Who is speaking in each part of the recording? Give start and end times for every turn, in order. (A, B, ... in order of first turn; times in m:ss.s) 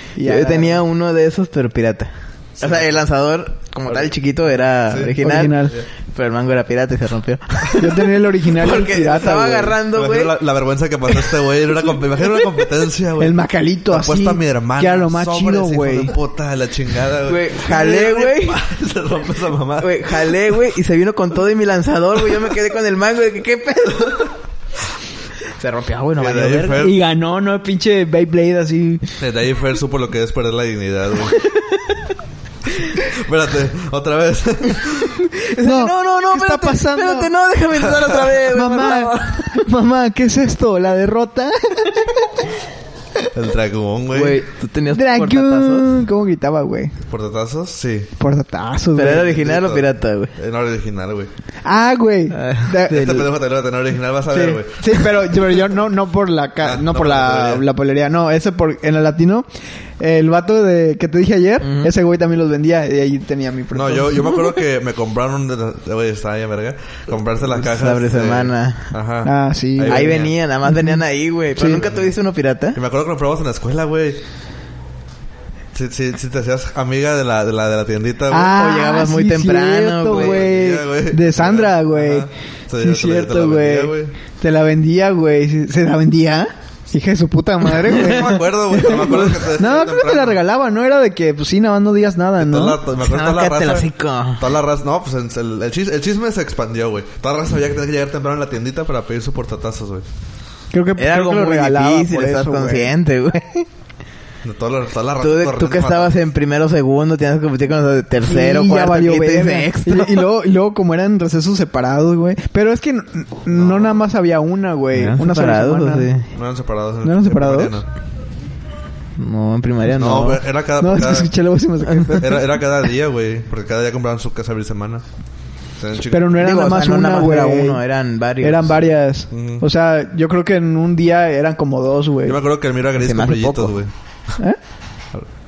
0:00.2-0:00.8 A
0:00.2-0:10.4 B
0:02.6-0:03.0 C
0:03.9-0:04.2 C
0:04.9-0:05.8 C
0:05.2-0:05.7 A
0:07.8-0:09.8 A
0:09.9-0:20.3 C
0:11.1-0:12.6 B
0:13.2-0:16.1 A
0:17.3-0:18.6 B
0:19.8-0:24.2 B
0:23.9-0:24.3 C
0:25.5-0:26.9 B
0:26.2-0:27.0 C
0:26.8-0:29.0 A
0:29.2-0:31.4 C
0:32.9-0:35.3 C
0:35.4-0:39.7 B
0:35.6-0:37.3 A
0:38.0-0:38.3 C
0:38.5-0:42.3 A
0:43.3-0:44.4 C
0:44.1-0:45.9 B
0:44.9-0:47.0 A
0:47.1-0:48.1 C
0:48.2-0:49.4 A
0:49.0-0:50.3 B
0:49.0-0:51.3 C
0:51.6-0:53.3 A
0:52.3-0:53.3 B
0:52.9-0:55.3 C
0:54.3-0:59.5 A
0:56.6-0:57.7 C
1:00.0-1:04.4 A
1:01.6-1:01.9 B
1:03.7-1:10.4 C
1:07.4-1:09.0 B
1:09.2-1:11.0 A
1:09.9-1:12.8 B
1:11.6-1:11.8 A
1:11.6-1:12.1 C
1:12.7-1:14.2 C
1:15.7-1:18.6 C
1:18.3-1:32.8 A
1:18.5-1:20.4 B
1:20.1-1:24.1 C
1:27.8-1:30.4 C
1:32.4-1:40.0 C
1:33.0-1:34.5 B
1:40.7-1:42.9 A
1:41.0-1:43.7 B
1:44.4-1:46.2 C
1:45.2-1:50.3 B
1:48.2-1:56.1 A
1:53.5-1:54.0 C
1:54.9-1:56.2 B
1:56.3-1:57.9 C
1:57.0-1:57.8 A
1:59.2-2:00.4 B
1:59.9-2:01.3 C
2:00.8-2:02.5 A
2:02.1-2:05.0 C
2:05.8-2:06.4 C
2:06.1-2:07.8 A
2:06.4-2:08.8 B
2:08.4-2:12.4 A
2:09.3-2:09.6 C
2:12.2-2:13.9 C
2:13.0-2:13.8 B